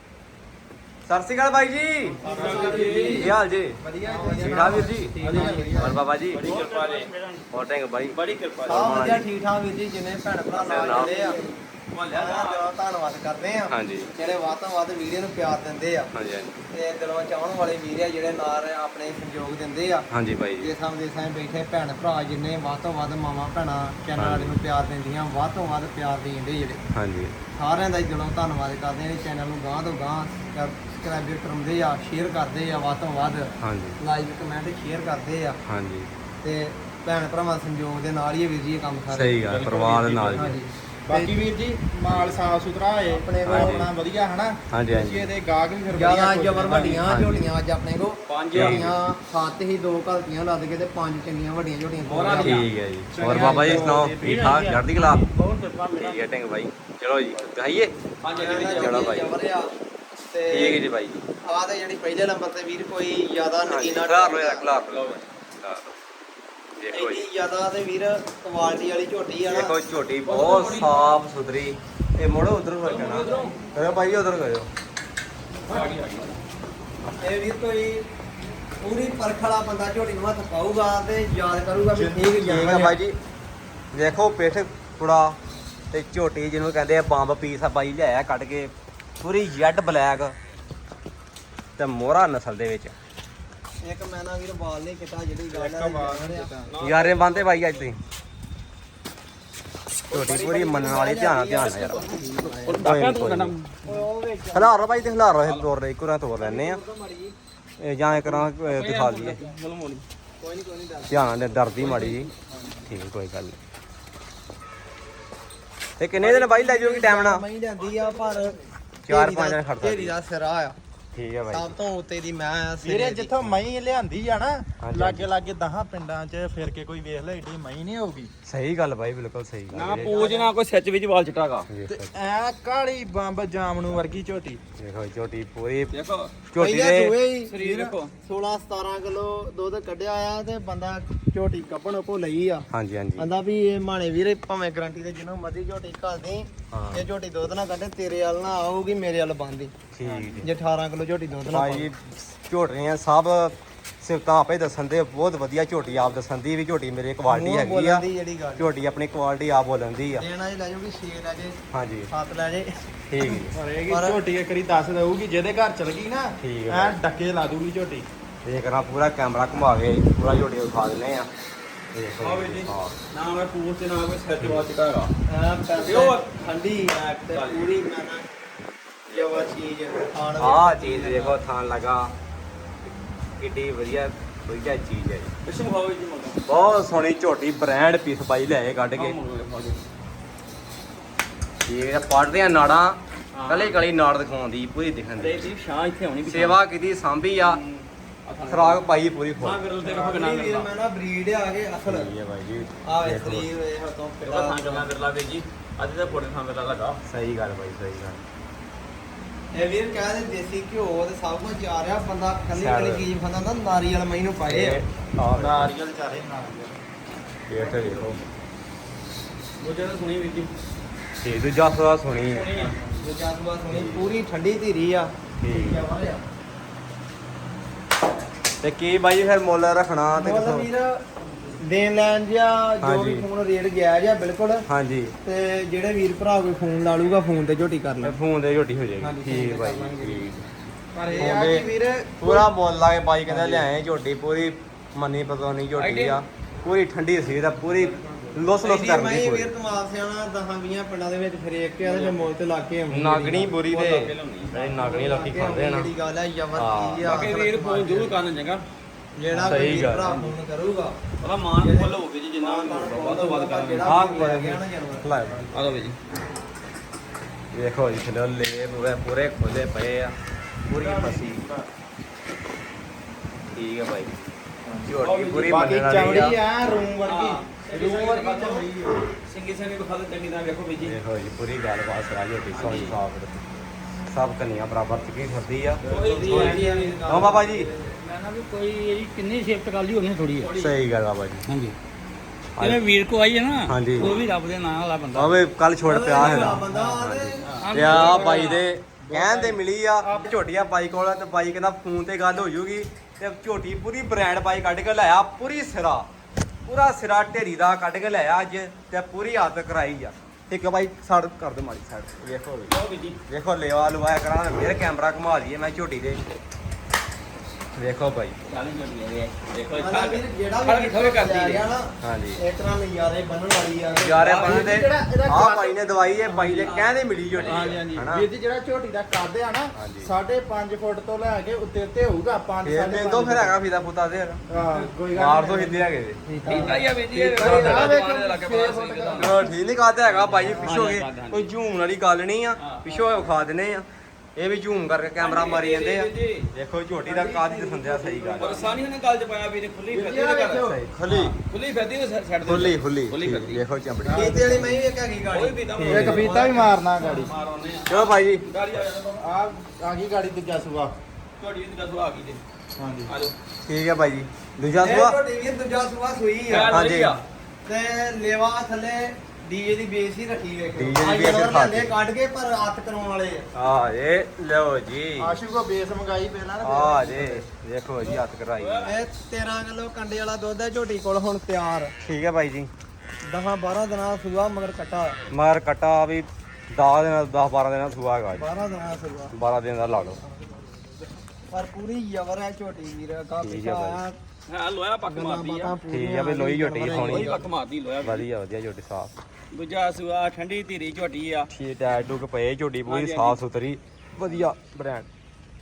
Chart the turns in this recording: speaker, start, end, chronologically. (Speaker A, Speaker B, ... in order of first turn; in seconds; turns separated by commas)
Speaker A: 1.1-3.8, Speaker B: 2.2-3.3, Speaker C: 2.2-6.0, Speaker D: 2.2-3.3, Speaker B: 3.8-7.0, Speaker A: 4.3-5.2, Speaker D: 5.2-7.4, Speaker A: 5.8-6.5, Speaker A: 7.5-9.2, Speaker D: 8.1-8.9, Speaker C: 8.7-11.4, Speaker A: 10.5-11.3, Speaker D: 11.3-12.7, Speaker C: 12.1-16.1, Speaker A: 13.7-14.1, Speaker A: 16.1-16.6, Speaker C: 16.7-20.1, Speaker A: 20.1-20.7, Speaker C: 20.6-26.8, Speaker A: 24.1-24.6, Speaker A: 26.9-27.4, Speaker C: 27.5-35.6, Speaker A: 33.6-34.0, Speaker A: 35.7-36.1, Speaker C: 36.4-39.3, Speaker A: 39.1-40.6, Speaker D: 39.5-40.4, Speaker C: 40.3-41.3, Speaker B: 41.0-47.0, Speaker C: 43.1-43.8, Speaker A: 43.5-43.9, Speaker A: 44.7-45.3, Speaker C: 45.9-52.6, Speaker A: 46.9-47.5, Speaker D: 48.3-48.8, Speaker A: 48.5-49.0, Speaker D: 52.0-52.7, Speaker A: 52.4-55.2, Speaker B: 53.1-56.2, Speaker C: 53.3-53.8, Speaker A: 56.0-57.9, Speaker D: 58.2-59.1, Speaker C: 58.3-59.8, Speaker A: 58.5-59.3, Speaker C: 60.3-60.8, Speaker A: 60.5-61.2, Speaker C: 61.4-64.7, Speaker A: 63.6-65.9, Speaker D: 64.9-65.2, Speaker A: 66.8-67.2, Speaker C: 66.9-69.7, Speaker A: 69.5-74.7, Speaker D: 70.2-71.2, Speaker D: 72.8-73.5, Speaker C: 73.2-73.5, Speaker D: 75.7-76.4, Speaker C: 77.2-78.0, Speaker C: 78.8-82.9, Speaker B: 81.9-82.9, Speaker A: 82.4-83.2, Speaker A: 83.9-85.4, Speaker A: 85.9-90.3, Speaker A: 91.8-92.9, Speaker C: 93.8-96.6, Speaker B: 95.5-96.7, Speaker D: 96.7-97.8, Speaker A: 96.8-98.0, Speaker A: 100.1-102.1, Speaker C: 100.1-102.9, Speaker D: 102.2-103.7, Speaker A: 102.8-103.5, Speaker C: 103.8-104.8, Speaker A: 104.5-106.8, Speaker C: 106.4-107.3, Speaker A: 107.8-109.4, Speaker D: 108.2-110.0, Speaker C: 110.4-111.2, Speaker A: 111.1-112.3, Speaker A: 112.8-113.6, Speaker A: 116.0-117.4, Speaker C: 116.2-118.6, Speaker A: 119.0-120.1, Speaker C: 119.1-120.8, Speaker A: 121.1-121.7, Speaker C: 121.5-123.3, Speaker B: 122.8-128.3, Speaker A: 124.8-125.3, Speaker A: 128.4-130.2, Speaker D: 129.7-131.7, Speaker C: 130.0-130.5, Speaker A: 131.7-132.1, Speaker B: 131.9-134.6, Speaker A: 134.8-135.9, Speaker D: 135.9-136.3, Speaker A: 136.5-137.2, Speaker C: 136.6-142.7, Speaker D: 137.4-138.1, Speaker A: 142.7-143.3, Speaker C: 143.2-149.7, Speaker A: 146.7-147.0, Speaker A: 149.9-150.5, Speaker B: 150.0-150.5, Speaker C: 150.4-151.9, Speaker A: 151.4-158.0, Speaker C: 157.3-158.6, Speaker A: 158.6-160.2, Speaker C: 160.1-161.6, Speaker A: 161.7-162.1, Speaker C: 162.1-162.8, Speaker A: 163.1-163.6, Speaker B: 163.4-168.1, Speaker C: 163.9-164.2, Speaker A: 166.4-167.0, Speaker A: 168.4-171.3, Speaker A: 171.9-172.9, Speaker D: 172.2-175.1, Speaker A: 174.4-174.6, Speaker C: 175.3-178.2, Speaker D: 175.8-176.2, Speaker D: 177.2-177.7, Speaker C: 179.1-181.4, Speaker D: 179.1-179.4, Speaker A: 180.4-182.1, Speaker A: 183.4-185.3, Speaker D: 185.4-186.4, Speaker A: 186.4-189.2, Speaker D: 188.9-189.8, Speaker A: 191.7-195.5, Speaker D: 193.3-193.8, Speaker D: 195.2-196.6, Speaker A: 196.3-197.6, Speaker D: 197.3-198.8, Speaker A: 198.5-199.6, Speaker D: 199.4-200.7, Speaker C: 199.8-202.1, Speaker A: 201.8-203.5, Speaker C: 202.8-204.9, Speaker D: 204.2-207.0, Speaker A: 207.1-208.2, Speaker C: 209.5-214.8, Speaker A: 212.5-213.0, Speaker A: 214.4-215.7, Speaker B: 215.3-216.8, Speaker A: 217.5-218.2, Speaker B: 217.6-218.2, Speaker D: 219.6-220.5, Speaker A: 221.2-222.5, Speaker D: 222.3-222.8, Speaker C: 223.0-226.2, Speaker A: 223.7-224.1, Speaker A: 225.4-225.9, Speaker A: 228.6-230.7, Speaker C: 230.2-234.7, Speaker A: 232.8-233.2, Speaker A: 234.7-235.1, Speaker C: 235.2-238.2, Speaker A: 238.0-240.5, Speaker C: 239.0-240.4, Speaker B: 240.9-242.5, Speaker A: 241.2-241.7, Speaker A: 242.2-249.5, Speaker D: 245.8-246.2, Speaker C: 248.6-253.6, Speaker D: 251.8-252.3, Speaker A: 252.9-255.9, Speaker D: 253.7-254.7, Speaker C: 254.7-258.1, Speaker A: 256.6-257.1, Speaker D: 257.0-258.6, Speaker C: 259.2-261.0, Speaker A: 259.4-260.2, Speaker D: 261.2-263.9, Speaker C: 261.6-265.1, Speaker A: 263.8-265.6, Speaker D: 265.5-265.9, Speaker A: 267.5-270.1, Speaker A: 270.7-271.5, Speaker B: 270.8-271.6, Speaker A: 273.5-274.2, Speaker B: 274.6-274.9, Speaker A: 274.8-276.4, Speaker D: 275.0-275.5, Speaker B: 275.4-279.1, Speaker D: 277.0-278.7, Speaker D: 279.3-280.9, Speaker A: 280.8-283.4, Speaker D: 282.5-283.0, Speaker A: 284.1-287.7, Speaker D: 285.8-287.0, Speaker C: 285.9-287.9, Speaker E: 288.0-290.3, Speaker D: 288.3-290.8, Speaker A: 290.5-291.4, Speaker A: 292.6-292.8, Speaker D: 292.6-295.3, Speaker A: 293.7-294.2, Speaker E: 294.0-295.2, Speaker A: 295.1-306.1, Speaker C: 295.9-297.5, Speaker D: 296.4-296.8, Speaker D: 297.4-298.6, Speaker B: 297.6-300.3, Speaker A: 306.6-312.7, Speaker D: 312.7-313.2, Speaker A: 313.3-316.2, Speaker A: 317.8-318.4, Speaker D: 318.5-321.7, Speaker C: 319.8-324.3, Speaker A: 322.0-322.4, Speaker A: 323.9-328.3, Speaker D: 324.2-324.7, Speaker B: 324.3-325.9, Speaker D: 326.2-327.8, Speaker B: 327.3-333.5, Speaker A: 329.7-330.1, Speaker A: 332.6-334.4, Speaker B: 334.5-335.8, Speaker A: 335.1-336.2, Speaker C: 336.2-336.9, Speaker D: 336.4-339.5, Speaker B: 336.7-339.5, Speaker A: 337.2-338.0, Speaker A: 339.1-348.6, Speaker D: 340.1-341.5, Speaker B: 340.4-340.8, Speaker D: 342.6-343.2, Speaker D: 345.2-346.5, Speaker B: 347.1-348.8, Speaker D: 348.4-350.7, Speaker B: 349.9-350.8, Speaker A: 350.6-351.4, Speaker D: 351.4-353.6, Speaker A: 352.4-354.3, Speaker B: 354.0-354.8, Speaker C: 354.1-356.4, Speaker D: 355.3-359.3, Speaker A: 355.8-356.2, Speaker B: 355.8-357.3, Speaker A: 357.9-358.5, Speaker B: 359.2-360.9, Speaker D: 361.4-362.4, Speaker B: 362.8-363.1, Speaker D: 363.1-363.3, Speaker A: 363.6-365.2, Speaker C: 364.8-366.8, Speaker D: 366.5-367.2, Speaker A: 366.7-367.2, Speaker C: 367.6-373.5, Speaker A: 370.8-371.9, Speaker A: 373.5-375.4, Speaker B: 375.2-377.4, Speaker A: 376.6-378.9, Speaker D: 378.0-379.0, Speaker C: 378.8-381.9, Speaker A: 382.0-382.7, Speaker C: 383.2-385.2, Speaker A: 385.3-388.4, Speaker C: 388.4-389.3, Speaker A: 389.3-390.2, Speaker C: 391.5-394.2, Speaker A: 393.4-394.0, Speaker D: 394.5-395.8, Speaker C: 395.1-397.4, Speaker A: 395.9-397.3, Speaker D: 396.9-398.3, Speaker A: 398.0-399.1, Speaker D: 399.5-401.5, Speaker A: 401.5-405.1, Speaker D: 402.9-403.4